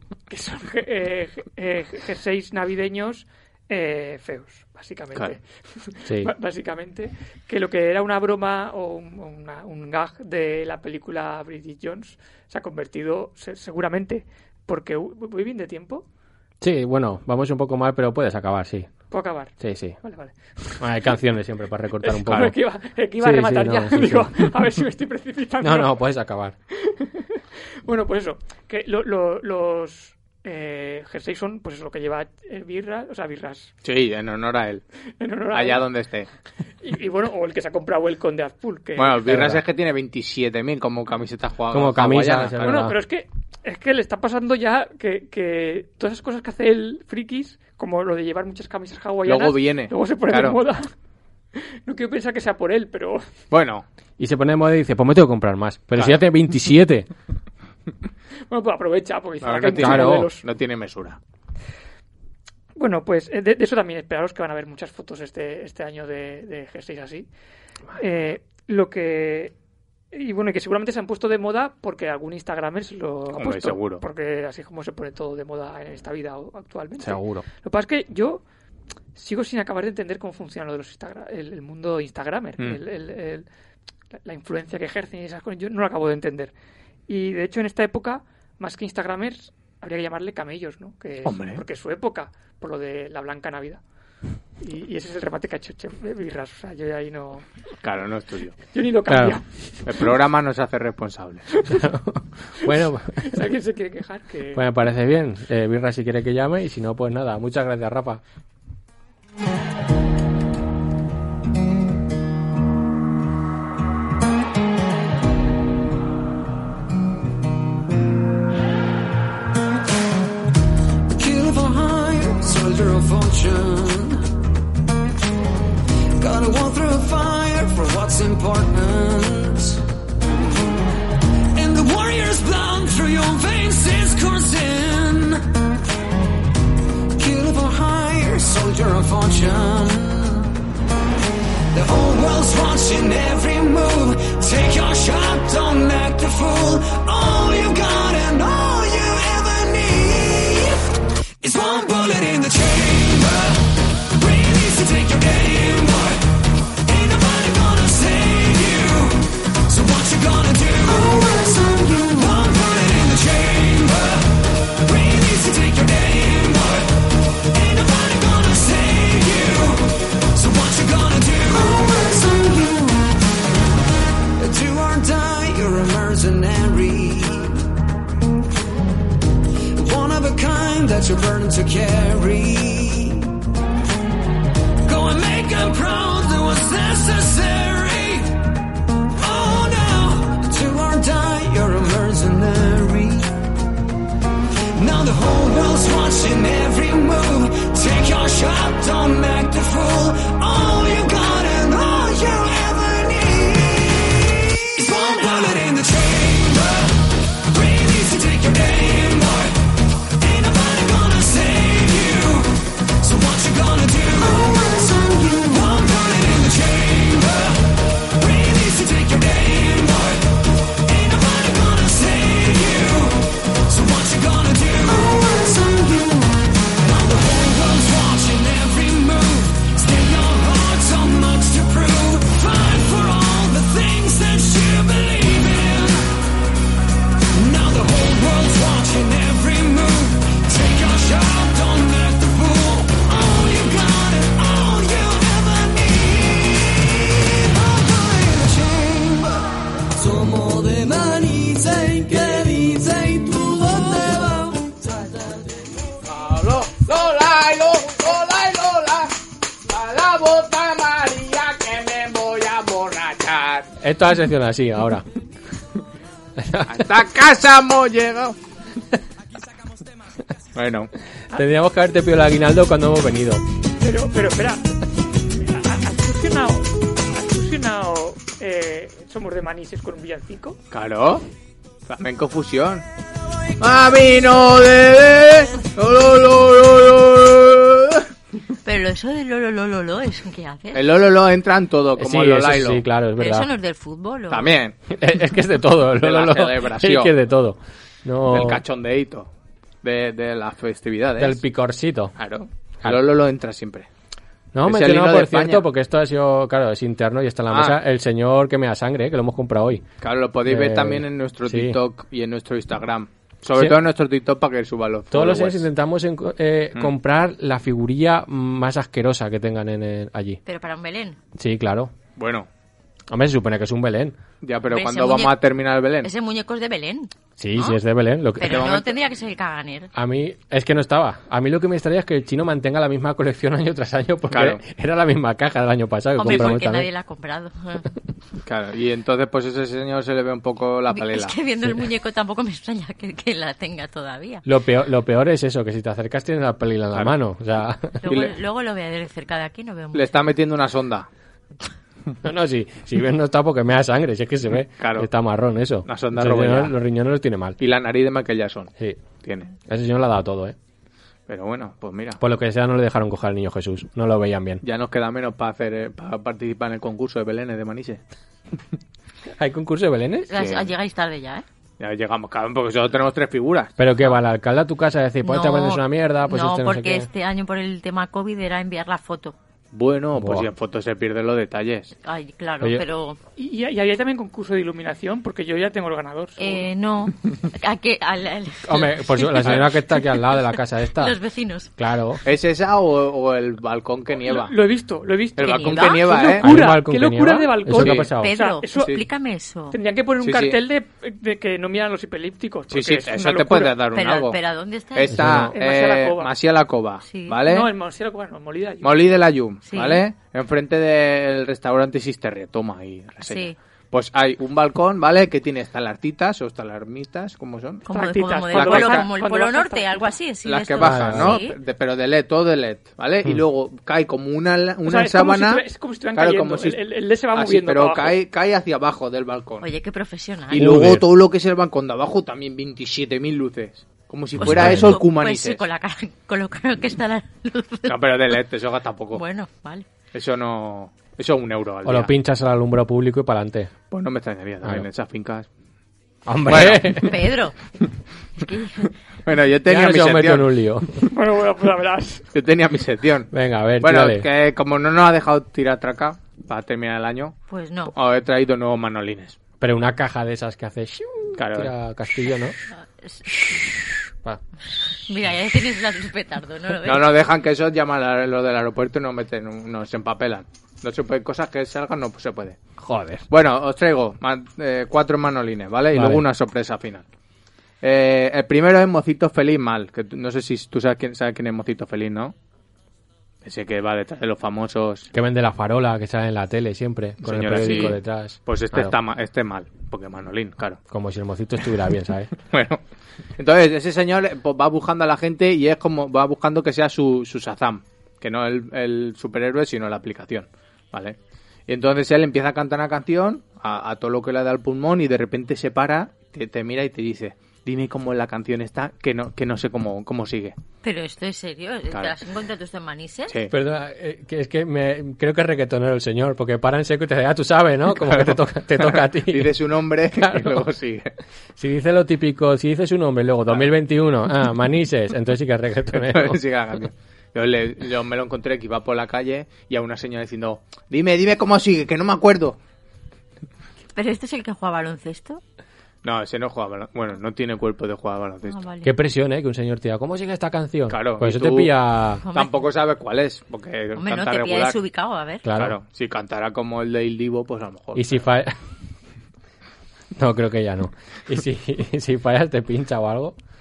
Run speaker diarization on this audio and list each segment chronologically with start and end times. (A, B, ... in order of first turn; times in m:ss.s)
0:00.3-0:16.1 A
0:06.1-0:06.3 B
0:16.6-0:18.9 B
0:19.1-0:20.9 A
0:19.6-0:20.0 B
0:20.8-0:22.6 B
0:22.0-0:26.0 A
0:22.3-0:22.5 C
0:23.2-0:24.7 B
0:25.6-0:26.6 B
0:26.7-0:33.7 A
0:33.8-0:34.8 C
0:35.2-0:35.9 A
0:35.5-0:36.3 C
0:36.8-0:39.4 A
0:39.0-0:42.9 C
0:39.3-0:39.6 B
0:41.7-0:43.0 B
0:42.6-0:50.9 A
0:49.2-0:50.6 C
0:51.6-0:53.3 A
0:53.5-0:53.8 C
0:54.2-0:57.1 B
0:58.5-1:00.4 A
0:59.4-1:01.2 C
0:59.8-1:00.3 B
1:02.8-1:07.3 A
1:08.0-1:09.5 A
1:10.1-1:18.4 A
1:13.3-1:14.0 C
1:17.0-1:17.5 B
1:19.2-1:23.5 A
1:24.2-1:26.5 A
1:27.1-1:33.8 A
1:31.2-1:31.6 C
1:34.6-1:37.5 A
1:37.8-1:38.6 C
1:38.7-1:39.4 A
1:39.8-1:41.5 C
1:41.6-1:41.8 A
1:41.7-1:43.5 B
1:42.6-1:44.6 A
1:44.5-1:48.2 B
2:01.1-2:04.3 D
2:06.2-2:10.8 D
2:11.6-2:15.5 D
2:17.2-2:20.6 D
2:21.7-2:53.3 D
2:54.4-2:57.8 D
2:59.8-3:03.4 D
3:04.9-3:08.5 D
3:09.1-3:13.5 D
3:14.8-3:56.2 D
3:57.3-4:15.6 D
4:16.0-4:19.1 C
4:19.7-4:23.7 C
4:23.8-4:25.0 B
4:26.4-4:26.8 B
4:26.7-4:28.4 C
4:30.6-4:30.9 C
4:31.3-4:33.4 B
4:33.8-4:34.6 A
4:35.2-4:40.6 A
4:40.7-4:41.2 C
4:41.9-4:42.8 C
4:43.6-4:48.1 C
4:48.6-4:50.9 E
4:50.7-4:52.8 C
4:52.0-4:53.5 B
4:53.2-4:54.5 E
4:54.3-4:54.8 C
4:54.9-4:58.6 B
4:56.0-4:57.1 C
4:58.3-4:59.3 C
4:59.8-5:01.4 C
5:01.2-5:02.2 B
5:02.2-5:03.9 C
5:04.5-5:09.9 B
5:04.7-5:05.6 C
5:07.5-5:07.8 C
5:10.0-5:15.7 C
5:10.5-5:11.8 B
5:15.1-5:20.4 B
5:20.4-5:21.2 E
5:21.4-5:21.9 B
5:22.2-5:22.5 C
5:23.1-5:24.2 B
5:24.4-5:26.1 C
5:24.7-5:25.4 E
5:26.0-5:27.8 E
5:27.4-5:28.7 B
5:28.4-5:29.9 E
5:28.4-5:28.9 C
5:29.9-5:36.9 B
5:34.3-5:34.6 C
5:36.2-5:37.9 E
5:36.3-5:36.6 C
5:38.4-5:41.4 C
5:40.9-5:44.4 E
5:44.5-5:48.0 B
5:48.0-5:50.1 E
5:48.1-5:48.4 C
5:49.9-5:51.1 C
5:52.2-5:57.6 B
5:54.8-5:55.1 C
5:55.9-5:56.8 C
5:57.6-5:58.7 C
5:59.2-5:59.5 C
5:59.7-6:00.6 B
6:01.3-6:02.2 C
6:02.2-6:04.6 B
6:04.6-6:08.0 C
6:09.4-6:10.3 B
6:10.3-6:11.4 E
6:10.4-6:10.7 C
6:11.8-6:13.7 C
6:13.8-6:17.1 B
6:15.2-6:19.4 E
6:19.7-6:22.0 C
6:20.2-6:20.5 B
6:22.0-6:23.2 E
6:23.4-6:26.7 A
6:26.4-6:31.7 E
6:28.6-6:31.2 B
6:29.4-6:29.7 C
6:31.8-6:32.2 B
6:32.2-6:34.6 C
6:34.2-6:39.0 A
6:35.4-6:36.6 C
6:35.4-6:36.1 E
6:36.4-6:38.3 B
6:37.7-6:38.1 C
6:38.2-6:39.8 E
6:39.7-6:43.8 A
6:40.2-6:40.6 C
6:42.7-6:44.4 C
6:43.9-6:45.3 E
6:45.0-6:47.7 C
6:45.1-6:45.6 B
6:45.5-6:46.3 A
6:47.1-6:47.4 E
6:47.4-6:49.2 A
6:48.8-6:57.9 C
6:49.7-6:50.0 E
6:53.2-6:53.6 E
6:57.9-7:01.6 E
6:57.9-7:00.1 A
6:58.5-6:59.1 C
7:00.4-7:09.7 C
7:00.8-7:01.4 B
7:04.8-7:08.2 A
7:09.6-7:10.7 E
7:10.5-7:15.6 C
7:10.5-7:11.1 B
7:14.4-7:15.0 B
7:14.4-7:18.1 E
7:17.9-7:19.2 C
7:19.1-7:19.9 E
7:20.1-7:22.1 C
7:21.8-7:23.7 B
7:23.9-7:25.5 C
7:26.3-7:27.2 B
7:26.5-7:27.1 C
7:26.9-7:27.6 E
7:28.4-7:28.9 E
7:29.3-7:30.5 C
7:29.7-7:31.1 B
7:31.1-7:32.3 A
7:32.3-7:37.4 C
7:33.3-7:34.3 B
7:37.5-7:37.9 E
7:37.9-7:39.4 C
7:39.6-7:42.6 B
7:41.4-7:41.7 C
7:42.7-7:43.4 E
7:45.0-7:47.1 E
7:46.8-7:52.6 C
7:52.8-7:53.2 B
7:53.3-7:57.0 C
7:55.9-7:56.2 B
7:57.8-8:02.3 C
8:03.4-8:05.1 C
8:05.1-8:09.0 B
8:07.2-8:10.8 C
8:10.9-8:12.3 B
8:12.5-8:12.8 C
8:13.4-8:21.2 C
8:21.7-8:30.6 C
8:30.8-8:33.4 E
8:33.5-8:39.6 B
8:38.0-8:41.1 C
8:40.1-8:40.7 B
8:41.6-8:46.4 B
8:45.9-8:52.6 C
8:54.0-8:55.4 E
8:56.0-8:58.6 C
8:58.5-8:58.9 E
8:58.8-9:02.2 B
9:00.9-9:01.8 C
9:02.2-9:02.7 E
9:02.3-9:04.8 C
9:04.0-9:05.5 E
9:05.4-9:05.8 B
9:05.6-9:08.2 C
9:08.0-9:08.6 B
9:10.2-9:13.4 B